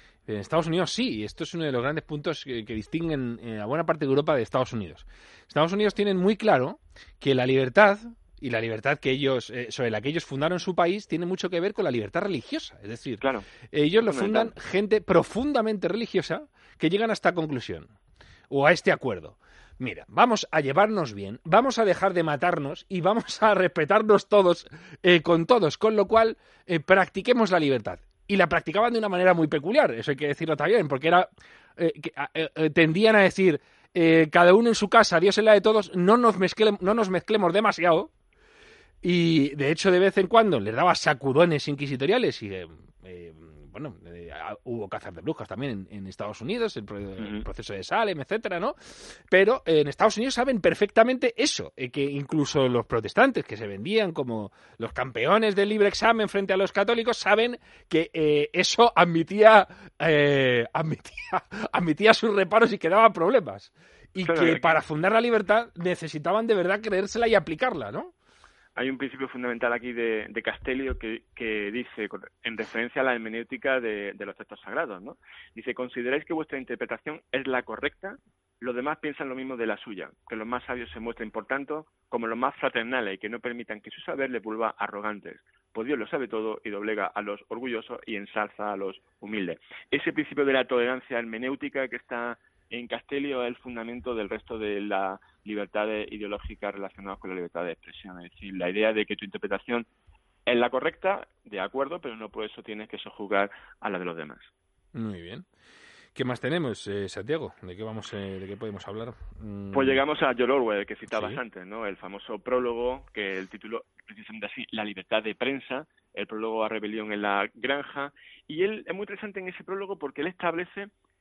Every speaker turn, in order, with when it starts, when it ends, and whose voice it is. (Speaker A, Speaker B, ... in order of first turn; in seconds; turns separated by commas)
Speaker A: 0.2-17.9, Speaker B: 13.2-13.4, Speaker B: 14.0-14.5, Speaker A: 18.5-38.1, Speaker A: 39.0-68.1, Speaker B: 47.2-47.5, Speaker B: 64.2-64.8, Speaker B: 68.8-99.9, Speaker B: 100.5-104.5, Speaker A: 104.9-105.5, Speaker A: 106.1-110.0, Speaker B: 109.7-120.9, Speaker A: 111.1-111.4